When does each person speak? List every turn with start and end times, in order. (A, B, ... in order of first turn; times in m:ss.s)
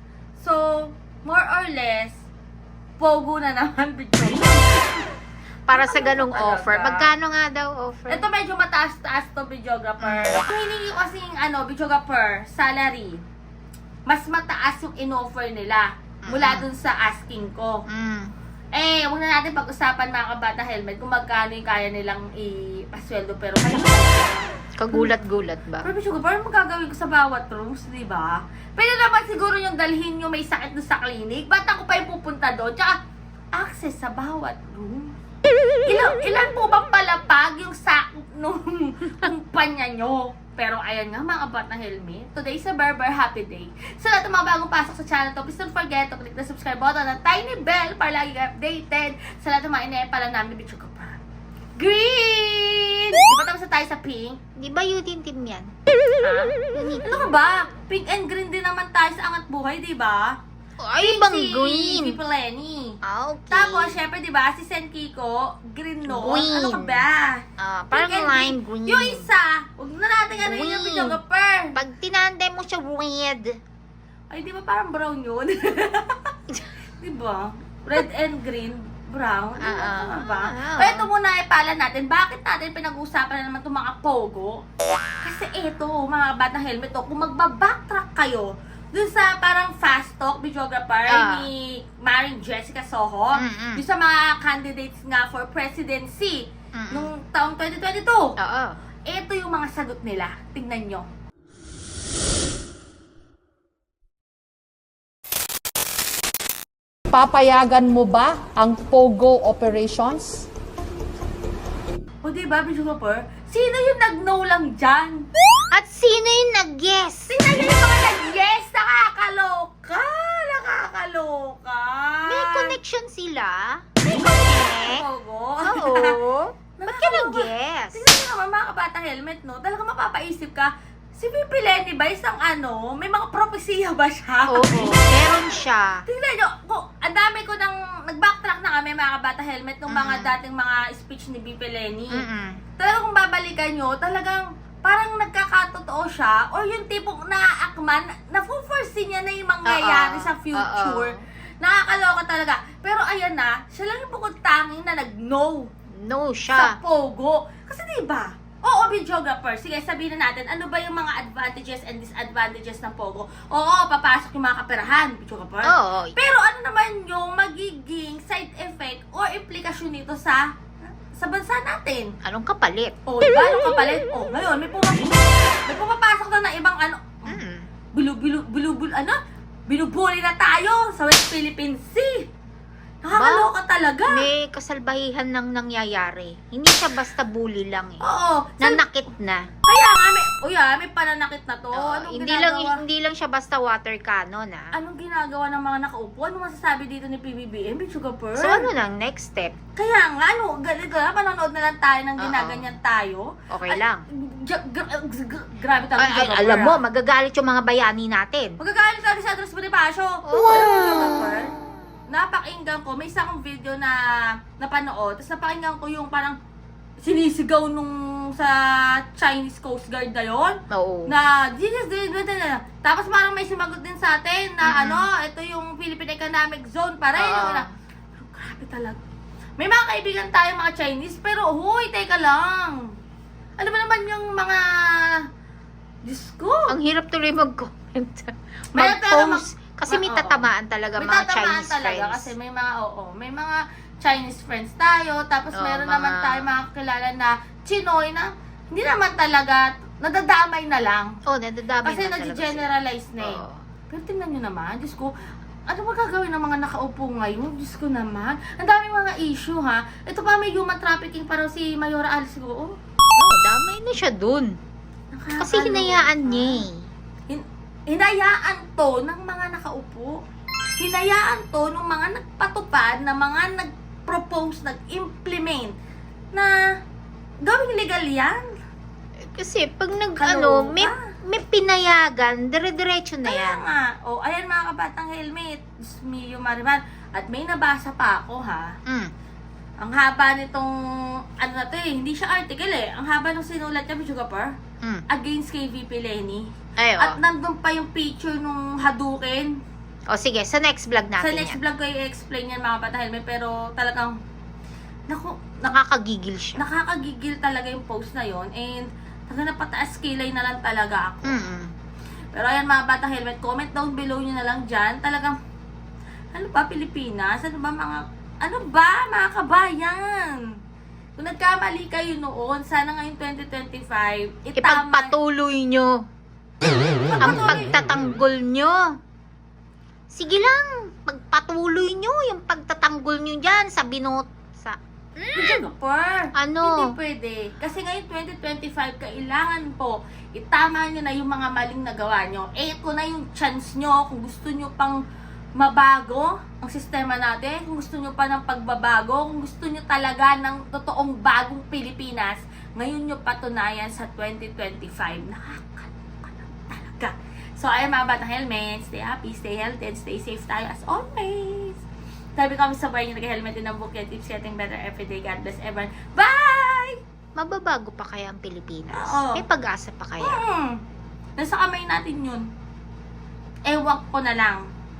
0:00.4-0:02.2 A
0:03.0-0:05.1 A
0:05.7-0:08.2 B
0:05.7-0:07.1 A
0:08.1-0:13.2 A
0:10.0-0:10.5 B
0:14.1-0:17.8 A
0:16.2-0:16.6 B
0:17.9-0:18.3 B
0:18.7-0:25.1 A
0:24.8-0:25.9 B
0:25.8-0:33.0 A
0:33.5-0:35.1 A
0:35.8-0:51.2 A
0:51.8-0:54.4 A
0:54.6-0:55.7 B
0:56.2-0:56.5 A
0:56.7-0:57.3 B
0:57.0-1:00.3 A
1:00.8-1:02.2 B
1:01.0-1:03.0 A
1:03.0-1:04.0 B
1:03.5-1:11.7 A
1:06.1-1:07.0 B
1:07.6-1:09.3 B
1:10.3-1:11.2 B
1:11.7-1:13.5 B
1:14.3-1:16.3 A
1:17.0-1:24.6 A
1:19.6-1:21.1 B
1:25.2-1:38.2 A
1:31.1-1:31.5 B
1:33.4-1:33.8 B
1:36.8-1:37.1 B
1:38.4-1:38.7 B
1:39.1-1:41.0 A
1:47.1-1:50.5 C
1:52.2-1:55.3 A
1:55.7-1:57.3 B
1:57.3-2:02.7 A
2:02.2-2:05.0 B
2:04.1-2:06.2 A
2:05.7-2:08.0 B
2:06.8-2:15.2 A
2:14.5-2:16.0 B
2:16.0-2:22.2 A
2:19.9-2:20.3 B
2:22.1-2:22.6 B
2:22.8-2:35.7 A
2:29.6-2:31.2 B
2:36.0-2:36.8 B
2:36.5-2:50.5 A
2:45.6-2:46.2 B
2:51.1-2:52.1 A
2:52.2-2:52.9 B
2:53.0-2:57.4 A
2:57.3-2:57.7 B
2:57.9-3:02.3 A
3:03.0-3:04.3 A
3:03.1-3:03.5 B
3:04.1-3:08.0 B
3:08.0-3:08.8 A
3:08.6-3:09.5 B
3:09.6-3:12.8 A
3:11.7-3:14.7 B
3:14.7-3:18.7 A
3:18.4-3:19.5 B
3:19.8-3:26.8 A
3:22.2-3:22.7 B
3:23.5-3:24.0 B
3:26.0-3:28.6 B
3:28.6-3:31.5 A
3:30.3-3:31.2 B
3:32.1-3:36.4 A
3:37.0-3:40.6 A
3:40.7-3:41.1 B
3:41.1-3:47.6 A
3:44.6-3:45.0 B
3:47.2-3:47.6 B
3:48.2-3:49.0 A
3:49.6-3:52.8 A
3:53.6-3:55.2 A
3:56.0-3:56.8 A
3:56.7-4:02.3 B
3:58.7-4:11.1 A
4:05.5-4:06.5 B
4:11.3-4:13.6 B
4:11.8-4:15.1 A
4:15.7-4:22.7 A
4:23.2-4:24.6 B
4:25.1-4:26.7 A
4:25.4-4:26.9 B
4:27.3-4:30.2 A
4:30.8-4:35.7 A
4:37.4-4:38.4 A
4:39.3-4:43.6 B
4:40.2-4:40.9 A
4:43.2-4:48.7 A
4:49.8-4:50.7 A
4:51.4-4:54.6 A
4:55.1-4:56.4 A
4:56.8-4:57.2 B
4:57.0-4:59.5 A
5:00.1-5:01.6 B
5:01.2-5:04.1 A
5:05.1-5:05.7 A
5:05.7-5:06.6 B
5:06.6-5:11.4 A
5:11.2-5:11.7 B
5:12.3-5:15.4 A
5:16.3-5:20.4 A
5:21.2-5:25.1 A
5:24.6-5:26.0 B
5:26.6-5:27.8 A
5:27.2-5:28.9 B
5:30.1-5:35.7 B
5:35.3-5:45.0 A
5:36.4-5:36.9 B
5:45.6-6:01.8 A
6:02.4-6:07.0 A
6:07.4-6:10.4 B
6:08.9-6:09.4 A
6:10.2-6:10.7 A
6:11.4-6:12.4 A
6:13.7-6:14.6 A